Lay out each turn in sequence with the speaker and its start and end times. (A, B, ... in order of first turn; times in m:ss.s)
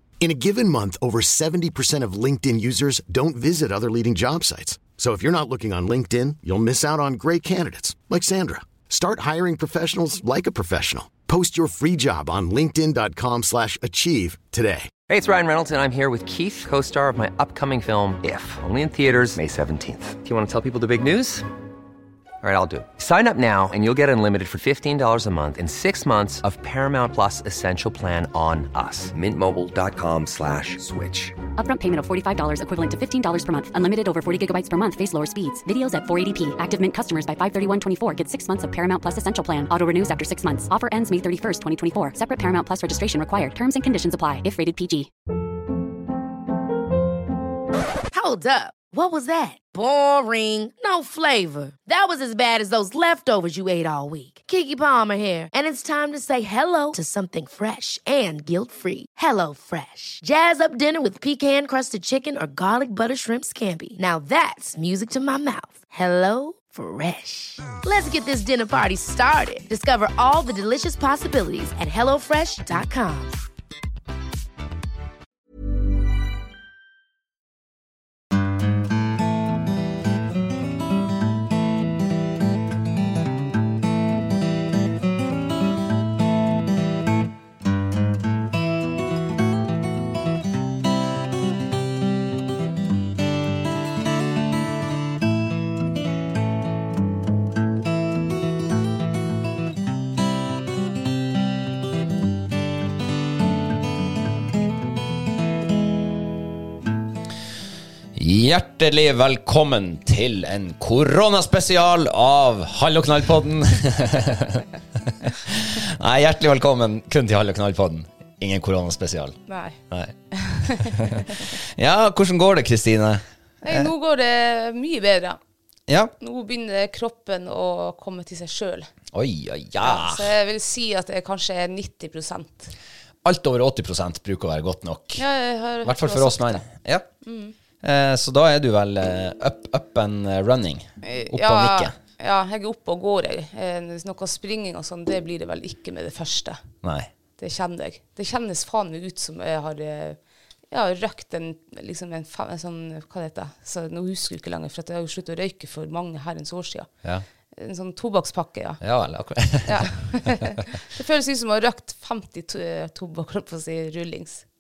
0:00.2-0:14.9 A
0:15.1-0:21.5 B
0:22.4-0:31.4 B
0:31.6-0:45.1 C
0:48.1-1:13.3 D
1:48.2-2:03.9 E
1:59.5-1:59.8 F
2:00.3-2:01.4 F
2:03.6-2:05.4 F
2:05.9-2:06.1 E
2:06.2-2:08.9 F
2:09.1-2:10.3 E
2:09.8-2:12.7 F
2:13.2-2:15.2 E
2:15.2-2:16.6 F
2:15.8-2:17.1 E
2:17.2-2:17.5 F
2:17.8-2:22.0 E
2:21.0-2:26.6 F
2:26.8-2:27.1 E
2:27.4-2:30.2 F
2:30.7-2:36.9 F
2:37.5-2:38.8 F
2:38.8-2:40.6 E
2:39.6-2:44.4 F